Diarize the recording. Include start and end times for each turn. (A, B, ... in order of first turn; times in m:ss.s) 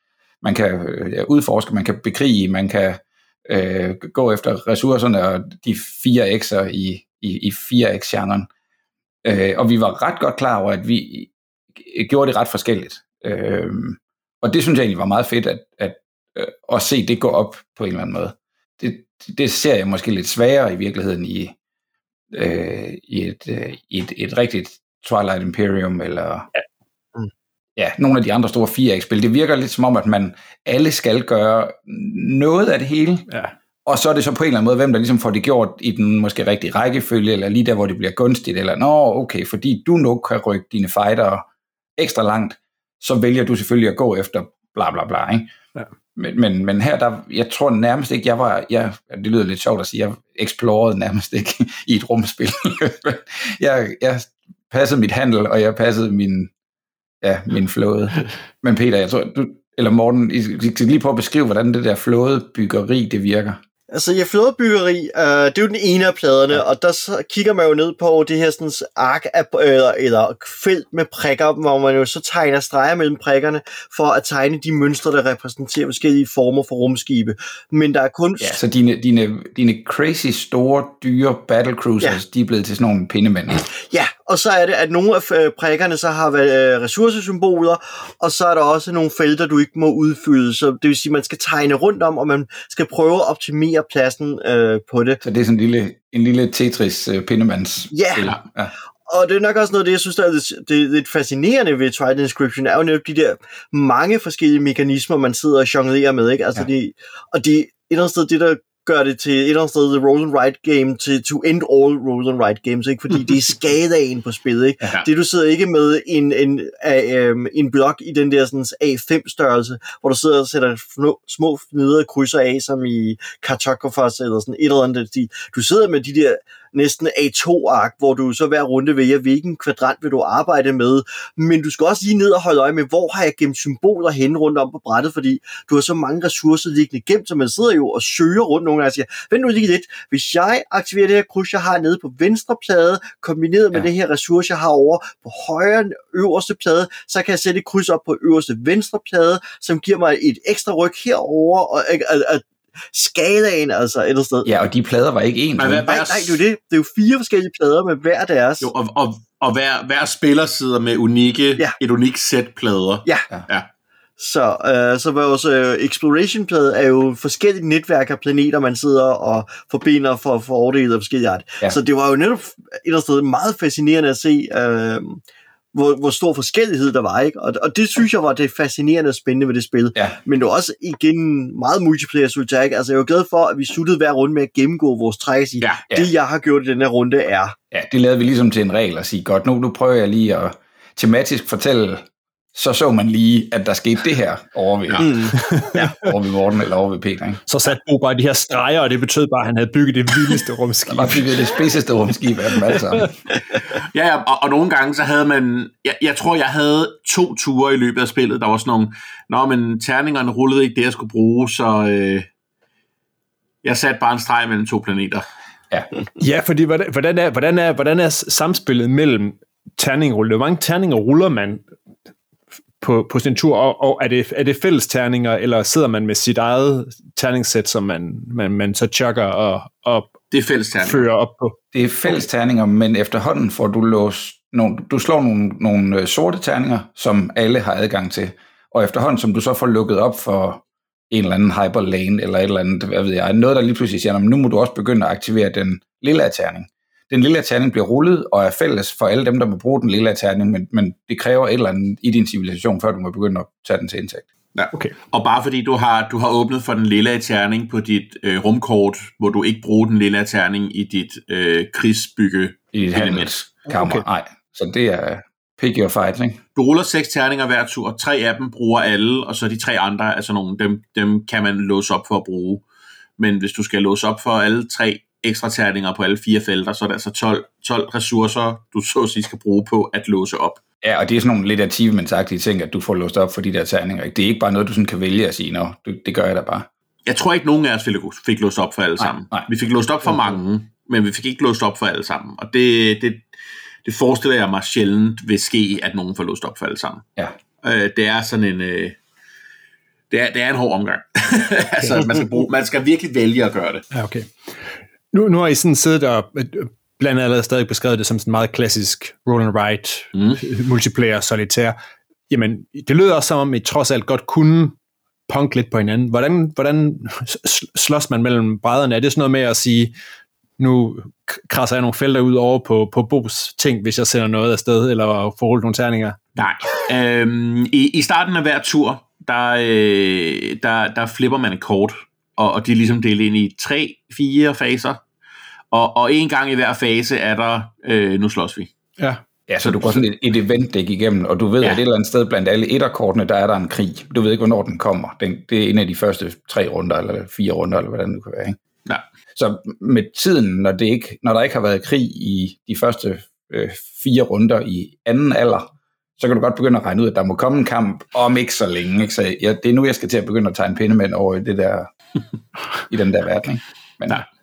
0:00.4-0:08.5 A
0:09.2-0:21.5 A
0:22.3-0:26.5 A
0:27.8-0:33.3 A
0:33.9-0:41.4 A
0:42.0-0:45.5 A
0:46.2-0:56.5 A
0:57.2-1:03.6 A
1:03.9-1:18.6 B
1:18.4-1:23.7 A
1:23.7-1:35.2 B
1:35.2-1:38.7 A
1:37.9-1:38.4 B
1:39.1-2:34.5 B
2:34.4-2:35.9 A
2:35.6-2:36.4 C
2:35.8-2:38.7 B
2:38.6-2:43.7 C
2:44.2-2:55.2 B
2:55.7-3:07.6 B
3:05.6-3:05.9 C
3:07.7-3:12.0 A
3:12.6-3:15.2 A
3:15.0-3:15.9 B
3:15.4-3:15.8 D
3:15.8-3:17.4 A
3:17.5-3:21.4 D
3:20.9-3:23.1 A
3:23.7-3:32.3 C
3:33.6-3:35.2 C
3:36.2-3:41.7 D
3:42.8-3:50.2 D
3:50.3-3:51.0 C
3:50.8-3:51.6 D
3:51.7-4:14.2 A
4:14.5-4:23.3 C
4:22.7-4:26.4 A
4:23.7-4:24.0 D
4:26.6-4:32.6 C
4:33.2-4:40.6 C
4:40.8-4:46.7 A
4:47.0-4:53.2 C
4:49.0-4:49.5 A
4:53.8-4:57.0 C
4:57.6-4:59.0 C
5:00.1-5:03.9 C
5:03.9-5:04.3 D
5:05.1-5:11.8 D
5:10.2-5:10.4 C
5:12.3-5:14.8 D
5:15.3-5:19.9 D
5:20.6-5:26.2 D
5:26.4-5:35.0 C
5:35.7-5:38.7 C
5:39.5-5:48.6 A
5:39.6-5:40.0 C
5:49.4-6:01.9 A
6:02.9-6:04.2 A